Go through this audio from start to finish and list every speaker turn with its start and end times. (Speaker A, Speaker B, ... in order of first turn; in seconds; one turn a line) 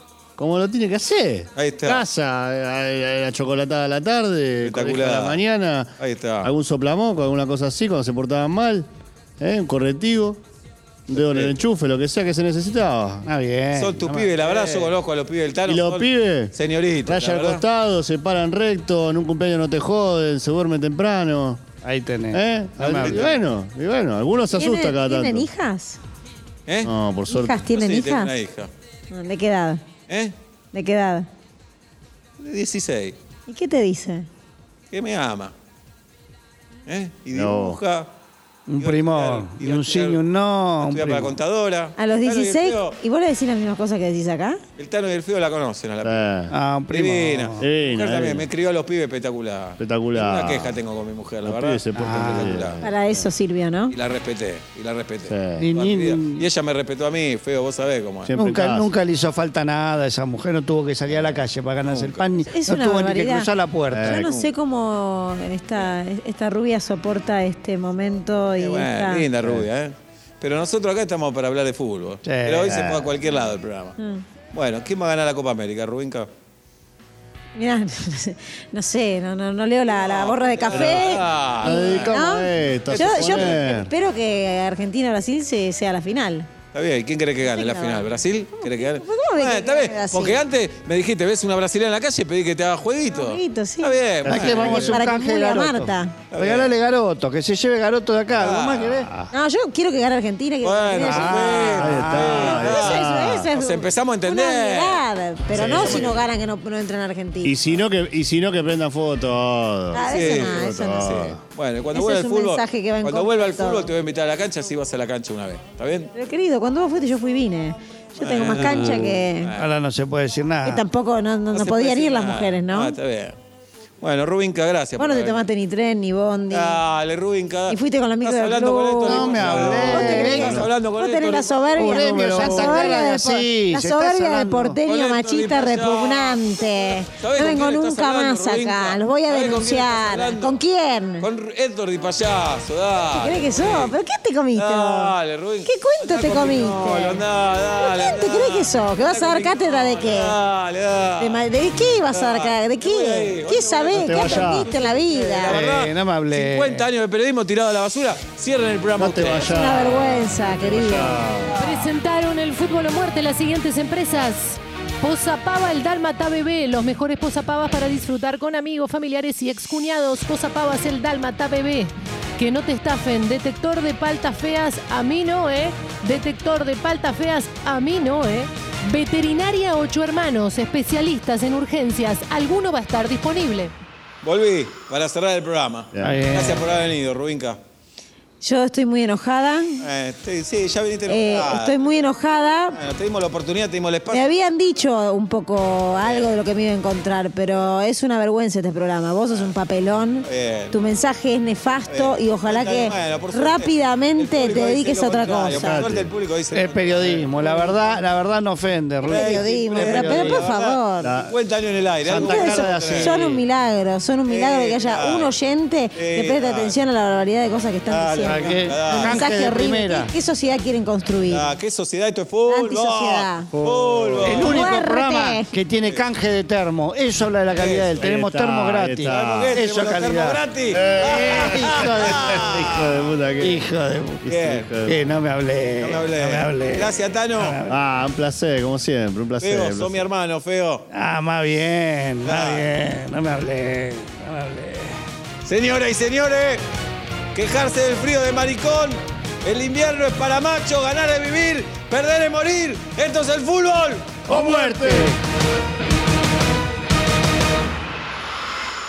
Speaker A: 0.4-5.9
Speaker B: 1.6-2.0
Speaker B: 4.6-5.4
Speaker B: 6.0-6.5
Speaker A: 6.4-8.9
Speaker A: 9.4-10.4
Speaker A: 11.1-13.3
Speaker B: 11.2-11.5
Speaker C: 13.2-14.9
Speaker B: 13.8-17.6
Speaker A: 15.6-21.6
Speaker C: 21.8-23.3
Speaker A: 22.3-25.5
Speaker B: 22.9-23.4
Speaker D: 24.5-26.0
Speaker B: 26.7-26.9
Speaker A: 26.8-27.6
Speaker D: 27.3-28.3
Speaker B: 27.7-28.7
Speaker D: 29.1-29.8
Speaker B: 30.1-30.3
Speaker D: 30.7-31.3
Speaker B: 32.4-33.1
Speaker D: 33.5-34.3
Speaker B: 34.9-35.5
Speaker B: 36.9-38.1
Speaker A: 37.3-37.8
Speaker C: 38.7-41.4
Speaker B: 38.8-40.2
Speaker B: 40.8-43.0
Speaker D: 42.0-44.6
Speaker B: 44.8-46.2
Speaker A: 46.0-46.5
Speaker C: 46.5-47.7
Speaker B: 46.9-52.8
Speaker A: 47.6-48.5
Speaker A: 49.8-50.8
Speaker A: 51.4-53.3
Speaker C: 51.9-52.6
Speaker D: 52.8-54.0
Speaker B: 53.9-58.3
Speaker A: 55.3-55.7
Speaker C: 55.6-56.5
Speaker A: 58.2-58.9
Speaker C: 58.3-64.2
Speaker B: 61.9-62.2
Speaker D: 62.5-69.3
Speaker A: 63.9-64.3
Speaker B: 64.2-64.5
Speaker B: 68.6-73.9
Speaker C: 72.2-72.8
Speaker A: 72.7-73.1
Speaker D: 74.0-74.2
Speaker B: 74.5-76.3
Speaker D: 77.5-86.5
Speaker B: 79.9-82.2
Speaker A: 80.7-83.9
Speaker B: 82.9-83.6
Speaker B: 86.7-95.0
Speaker D: 87.4-90.4
Speaker D: 93.1-96.2
Speaker A: 94.2-95.0
Speaker C: 94.2-99.1
Speaker B: 96.3-96.7
Speaker B: 98.3-99.0
Speaker A: 98.9-99.3
Speaker D: 99.3-101.8
Speaker B: 100.6-106.2
Speaker C: 100.9-102.6
Speaker A: 101.7-103.5
Speaker D: 102.3-107.6
Speaker A: 105.5-106.1
Speaker A: 107.4-111.4
Speaker D: 109.9-111.2
Speaker B: 110.0-116.1
Speaker D: 111.9-113.9
Speaker D: 116.1-119.5
Speaker B: 118.2-119.7
Speaker C: 118.5-120.8
Speaker D: 120.6-123.0
Speaker B: 121.5-123.4
Speaker B: 124.0-125.4
Speaker D: 125.0-126.8
Speaker B: 126.5-131.6
Speaker D: 127.7-141.3
Speaker C: 129.0-130.6
Speaker A: 129.4-130.7
Speaker C: 131.8-134.8
Speaker A: 132.3-132.8
Speaker B: 134.8-140.6
Speaker B: 141.2-143.9
Speaker D: 143.1-145.1
Speaker B: 144.5-151.4
Speaker D: 145.6-147.2
Speaker D: 147.7-150.3
Speaker D: 151.2-155.6
Speaker B: 152.1-159.7
Speaker A: 153.9-154.7
Speaker C: 155.5-156.8
Speaker A: 159.0-161.6
Speaker D: 159.4-161.2
Speaker E: 161.6-183.7
Speaker B: 184.2-187.6
Speaker A: 185.9-186.3
Speaker C: 186.0-186.6
Speaker D: 188.4-189.9
Speaker B: 189.8-191.8
Speaker D: 191.1-192.8
Speaker B: 192.7-194.3
Speaker D: 194.1-205.8
Speaker B: 196.0-196.3
Speaker B: 200.2-200.8
Speaker B: 201.9-208.0
Speaker A: 205.5-206.1
Speaker C: 206.5-210.4
Speaker D: 209.0-211.2
Speaker B: 209.0-213.3
Speaker A: 211.0-211.3
Speaker C: 212.1-213.4
Speaker D: 212.2-221.5
Speaker B: 214.3-215.3
Speaker B: 215.9-216.8
Speaker B: 217.9-219.3
Speaker C: 218.2-220.1
Speaker B: 221.2-224.7
Speaker D: 222.5-223.5
Speaker A: 223.5-224.6
Speaker C: 224.2-230.4
Speaker D: 224.4-225.5
Speaker B: 227.5-228.1
Speaker A: 228.0-229.6
Speaker B: 229.1-233.1
Speaker A: 230.7-233.7
Speaker C: 231.0-232.8
Speaker C: 233.4-234.2
Speaker A: 234.2-235.0
Speaker B: 234.2-234.7
Speaker C: 234.8-237.8
Speaker B: 235.8-237.6
Speaker A: 237.7-240.0
Speaker B: 239.4-240.8
Speaker C: 240.9-245.0
Speaker B: 242.2-242.7
Speaker B: 245.4-246.6
Speaker B: 247.3-254.2
Speaker C: 254.3-255.2
Speaker A: 254.3-255.2